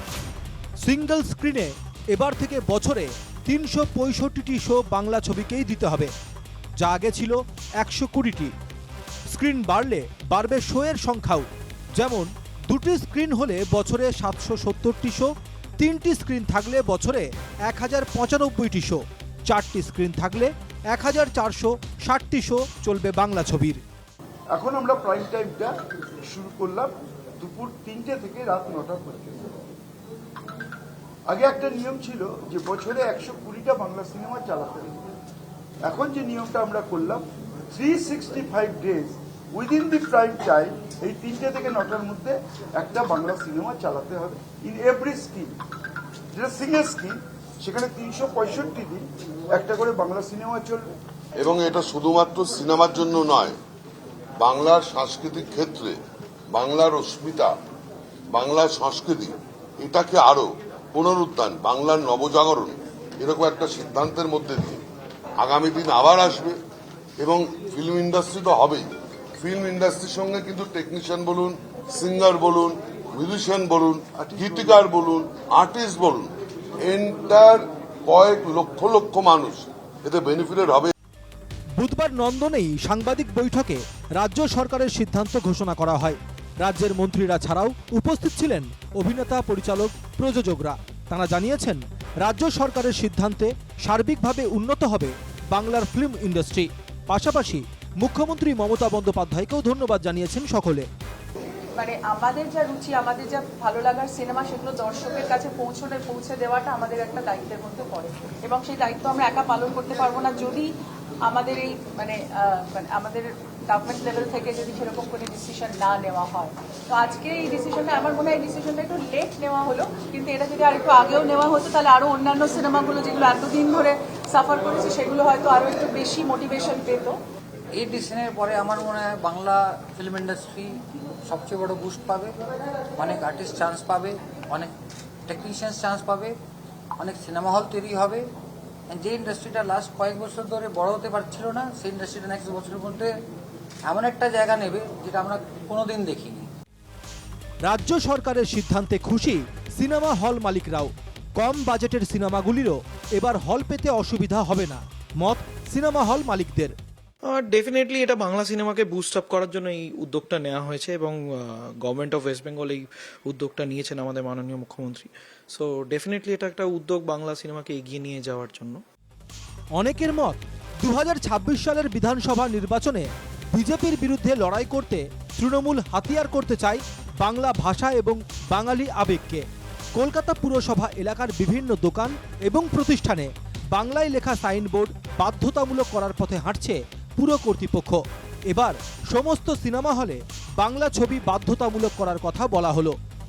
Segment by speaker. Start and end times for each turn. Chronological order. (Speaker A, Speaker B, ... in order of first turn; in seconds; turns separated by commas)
Speaker A: 0.8-6.1, Speaker A: 6.8-8.5, Speaker A: 9.3-23.8, Speaker B: 24.5-25.7, Speaker B: 26.3-29.6, Speaker B: 31.3-35.0, Speaker B: 35.8-45.5, Speaker B: 46.3-50.9, Speaker C: 51.4-53.6, Speaker C: 54.4-56.0, Speaker C: 56.5-57.5, Speaker C: 58.3-64.8, Speaker C: 65.4-66.6, Speaker C: 67.2-80.9, Speaker B: 74.2-74.8, Speaker A: 81.8-100.8, Speaker D: 101.8-110.7, Speaker D: 111.2-127.2, Speaker E: 127.7-134.7, Speaker E: 135.3-136.4, Speaker E: 137.0-138.3, Speaker E: 138.9-143.1, Speaker E: 143.8-146.5, Speaker A: 147.6-156.7, Speaker F: 157.3-168.8, Speaker A: 169.8-192.9